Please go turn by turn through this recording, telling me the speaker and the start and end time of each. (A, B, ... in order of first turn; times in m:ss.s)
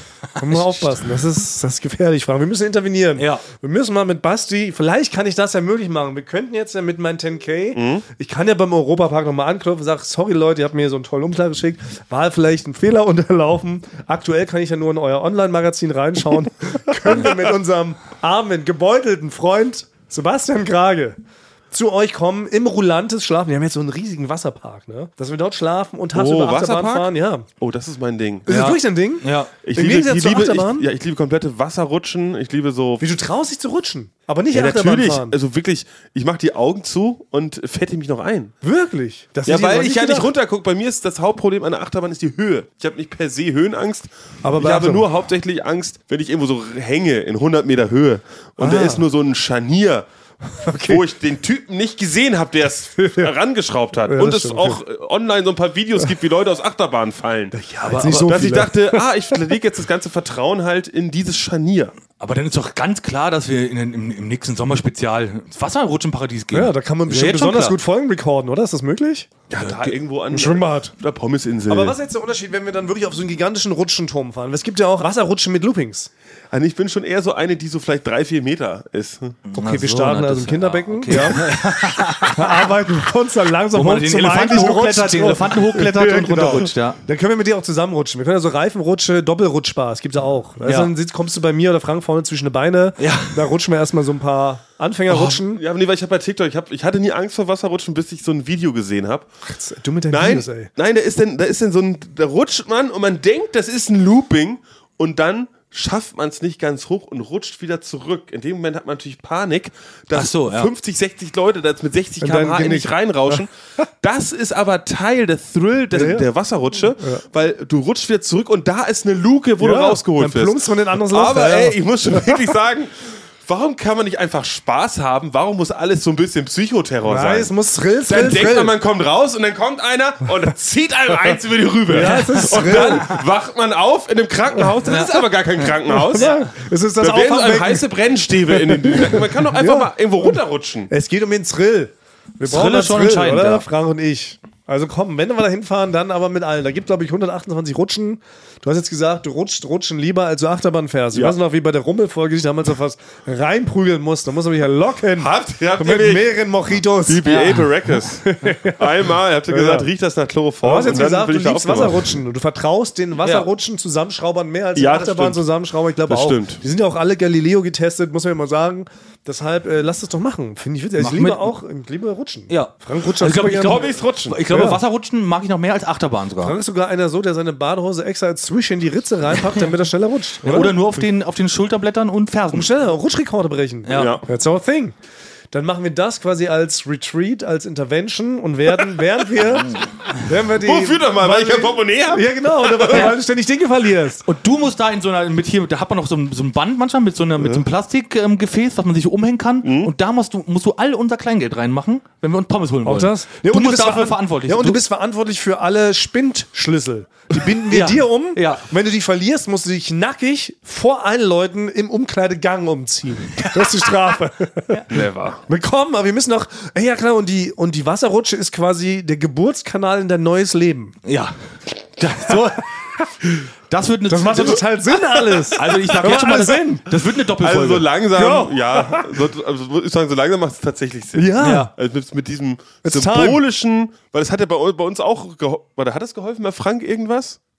0:00.4-0:21.2 A
0:00.4-0:00.9 B
0:03.2-0:03.4 B
0:07.8-0:08.0 C
0:21.7-0:27.5 A
0:26.1-0:28.5 C
0:28.5-0:30.9 A
0:28.5-0:29.5 B
0:29.6-0:33.1 C
0:33.0-0:35.4 A
0:34.5-0:38.5 C
0:38.6-0:40.3 A
0:39.5-0:50.1 C
0:44.4-0:45.1 A
0:48.6-0:49.0 A
0:50.5-0:51.0 A
0:50.8-1:02.0 C
0:53.0-0:53.3 A
0:54.1-0:54.8 A
0:57.5-0:59.4 A
0:57.8-0:58.2 B
1:02.2-1:07.8 B
1:06.5-1:09.3 A
1:09.5-1:12.0 C
1:09.6-1:09.8 B
1:10.3-1:10.9 A
1:11.7-1:16.1 A
1:16.5-1:19.4 C
1:19.5-1:22.7 B
1:19.6-1:35.6 A
1:23.7-1:27.0 B
1:30.6-1:30.9 B
1:33.0-1:33.5 B
1:35.1-1:39.3 C
1:39.5-1:40.7 A
1:40.1-1:53.5 C
1:50.1-1:50.7 B
1:52.2-1:53.4 A
1:54.0-2:07.5 C
1:55.9-1:56.3 A
1:57.0-1:57.2 A
1:59.6-2:02.5 A
2:07.0-2:08.8 A
2:08.1-2:16.4 C
2:11.9-2:13.2 A
2:12.0-2:13.2 B
2:14.8-2:15.3 B
2:15.9-2:17.9 A
2:16.1-2:16.5 B
2:17.0-2:20.9 C
2:18.5-2:20.4 A
2:20.9-2:37.6 A
2:22.4-2:23.7 B
2:35.2-2:36.4 C
2:37.0-2:42.2 C
2:37.3-2:37.7 B
2:38.2-2:39.9 A
2:40.6-2:53.9 A
2:43.2-2:43.5 B
2:44.8-2:45.4 C
2:46.1-2:46.6 C
2:51.0-2:51.5 B
2:52.5-2:56.6 B
2:53.5-2:54.4 C
2:54.5-2:54.8 A
2:56.4-3:00.8 A
3:00.4-3:02.7 B
3:02.5-3:05.0 A
3:03.8-3:04.2 B
3:03.9-3:04.3 C
3:05.5-3:14.2 A
3:10.6-3:13.1 C
3:14.2-3:24.8 B
3:19.6-3:19.9 C
3:22.8-3:34.8 A
3:27.7-3:28.6 B
3:33.4-3:33.8 B
3:34.9-3:35.4 C
3:35.5-3:41.0 A
3:41.0-3:41.4 B
3:42.0-3:42.7 B
3:43.7-3:44.7 B
3:44.1-3:46.8 A
3:45.6-3:47.9 B
3:47.4-3:57.4 C
3:48.1-3:49.2 A
3:51.2-3:51.7 A
3:51.4-3:51.7 B
3:52.8-3:53.4 A